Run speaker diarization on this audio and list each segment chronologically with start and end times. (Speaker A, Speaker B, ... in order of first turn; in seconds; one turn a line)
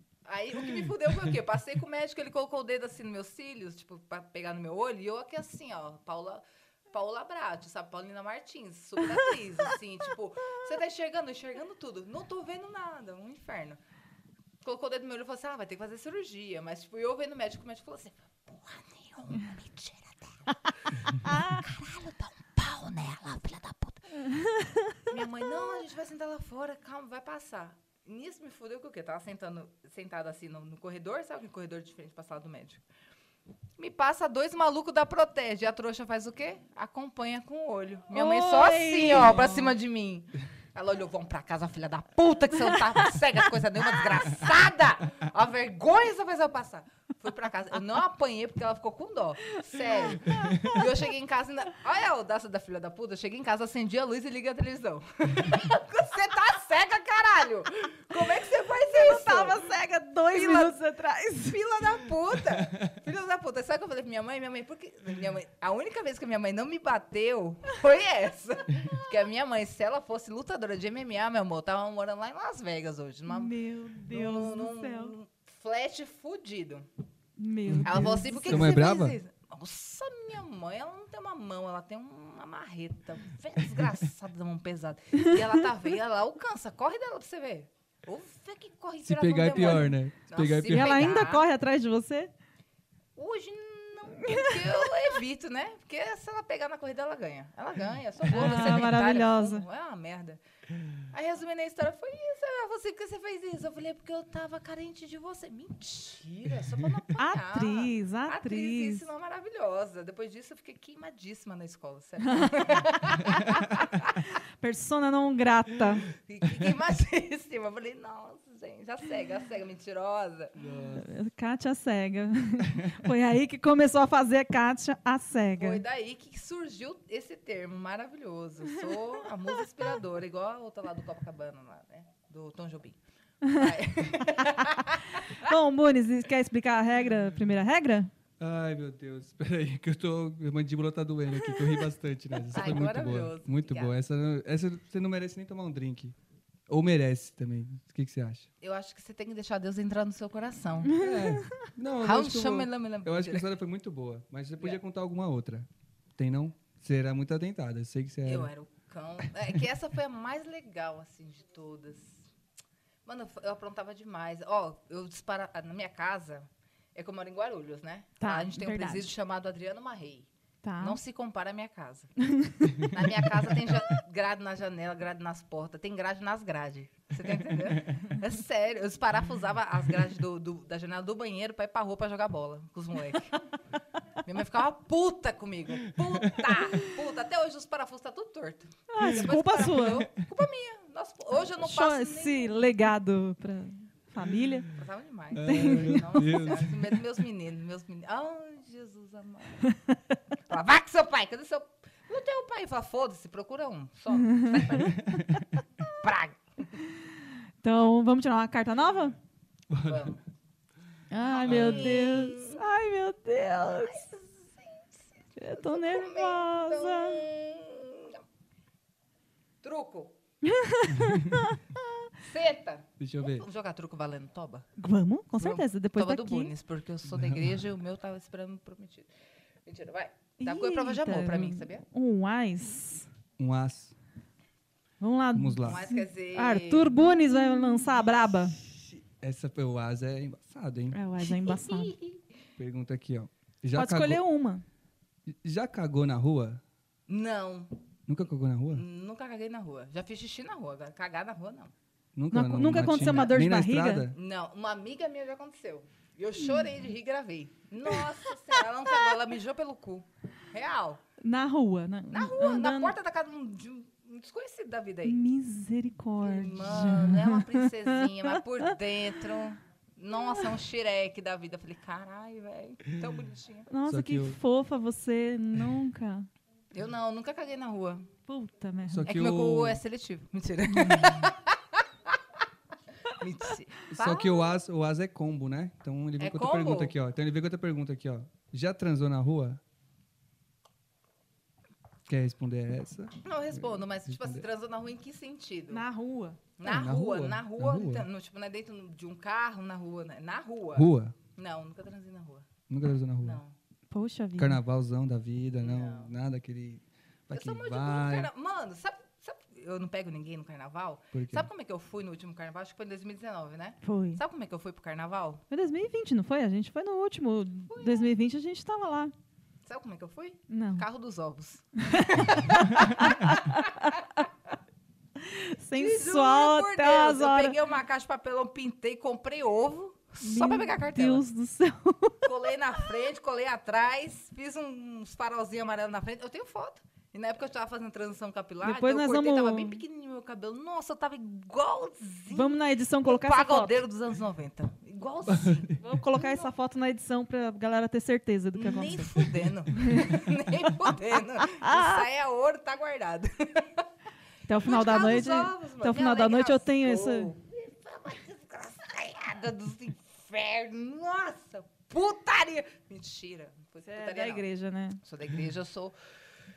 Speaker A: 0.2-13.8
Speaker B: 0.7-1.3
Speaker A: 14.6-24.1
Speaker C: 21.1-21.6
Speaker C: 24.2-25.1
Speaker A: 25.1-32.8
Speaker A: 33.8-59.6
Speaker C: 38.1-39.7
Speaker C: 42.6-43.2
Speaker C: 49.5-50.9
Speaker B: 50.3-50.7
Speaker C: 58.8-61.6
Speaker A: 60.3-60.8
Speaker A: 61.4-73.5
Speaker C: 73.3-75.1
Speaker A: 74.0-76.9
Speaker C: 77.4-78.8
Speaker B: 77.7-79.2
Speaker A: 77.8-91.4
Speaker B: 89.0-91.1
Speaker C: 90.7-92.3
Speaker A: 93.2-100.4
Speaker C: 94.2-94.8
Speaker C: 98.3-99.6
Speaker A: 101.1-114.3
Speaker C: 107.1-109.0
Speaker C: 112.2-112.7
Speaker C: 114.6-116.0
Speaker A: 116.0-120.6
Speaker B: 120.5-121.1
Speaker C: 120.9-125.8
Speaker A: 125.6-135.5
Speaker C: 133.4-138.1
Speaker B: 138.4-146.1
Speaker A: 142.5-143.9
Speaker B: 146.7-148.5
Speaker A: 148.6-151.1
Speaker C: 150.9-151.7
Speaker B: 150.9-158.5
Speaker A: 152.0-153.5
Speaker A: 158.2-162.3
Speaker A: 163.0-170.3
Speaker C: 168.2-169.1
Speaker C: 170.6-171.0
Speaker A: 170.8-172.1
Speaker C: 172.2-173.0
Speaker A: 172.7-183.4
Speaker B: 177.8-178.1
Speaker A: 184.2-192.6
Speaker B: 186.0-186.8
Speaker C: 188.9-190.1
Speaker B: 189.0-189.4
Speaker C: 191.6-194.7
Speaker A: 194.7-199.7
Speaker B: 195.3-197.0
Speaker C: 195.4-196.5
Speaker C: 199.6-199.9
Speaker A: 200.5-205.0
Speaker C: 204.2-204.9
Speaker B: 204.8-205.4
Speaker A: 205.8-206.8
Speaker C: 207.6-209.2
Speaker B: 209.7-210.1
Speaker A: 209.8-210.2
Speaker C: 211.1-214.1
Speaker A: 211.2-212.6
Speaker B: 211.4-212.0
Speaker A: 213.8-218.2
Speaker C: 215.4-217.2
Speaker A: 219.6-220.1
Speaker C: 220.4-222.1
Speaker B: 220.9-221.5
Speaker A: 222.2-224.7
Speaker B: 223.0-223.4
Speaker C: 224.8-226.5
Speaker A: 225.3-229.1
Speaker B: 227.1-227.6
Speaker A: 229.7-231.8
Speaker C: 230.4-233.1
Speaker B: 233.4-233.9
Speaker C: 235.0-238.6
Speaker B: 235.3-235.8
Speaker A: 235.7-237.1
Speaker B: 238.6-241.0
Speaker C: 240.9-241.9
Speaker A: 241.2-242.2
Speaker B: 242.6-244.2
Speaker C: 243.7-244.6
Speaker B: 245.3-246.6
Speaker A: 247.1-247.7
Speaker B: 248.1-248.8
Speaker A: 248.7-251.7
Speaker B: 252.1-254.2
Speaker C: 252.3-254.1
Speaker A: 252.8-253.3
Speaker A: 254.1-261.0
Speaker C: 256.4-256.7
Speaker C: 258.0-259.1
Speaker C: 261.2-262.9
Speaker A: 262.1-265.2
Speaker C: 265.0-268.7
Speaker A: 266.2-273.7
Speaker C: 270.1-270.5
Speaker C: 273.7-276.3
Speaker B: 273.9-274.4
Speaker A: 276.7-278.1
Speaker C: 278.3-279.1
Speaker B: 278.9-279.8
Speaker A: 279.0-282.2
Speaker A: 283.1-284.6
Speaker B: 283.9-289.6
Speaker A: 286.2-286.9
Speaker B: 292.1-294.4
Speaker A: 293.2-295.8
Speaker C: 295.7-296.4
Speaker A: 296.6-302.5
Speaker B: 296.6-298.1
Speaker B: 300.7-301.1
Speaker B: 302.7-303.4
Speaker A: 303.2-303.5
Speaker C: 303.9-304.6
Speaker B: 304.4-308.3
Speaker A: 305.6-306.1
Speaker A: 307.3-315.4
Speaker B: 311.1-311.5
Speaker C: 313.8-314.2
Speaker C: 315.5-319.1
Speaker A: 317.7-318.1
Speaker A: 319.6-324.1
Speaker C: 320.5-320.9
Speaker C: 321.8-324.2
Speaker C: 325.2-327.6
Speaker A: 325.7-331.2
Speaker C: 330.2-332.3
Speaker A: 332.2-346.5
Speaker C: 338.6-339.8
Speaker C: 342.3-343.8
Speaker B: 345.3-345.7
Speaker C: 345.8-349.1
Speaker A: 348.5-353.9
Speaker C: 349.7-350.2
Speaker C: 351.4-352.1
Speaker C: 354.5-357.3
Speaker A: 354.6-364.4
Speaker C: 363.8-365.0
Speaker A: 365.0-365.9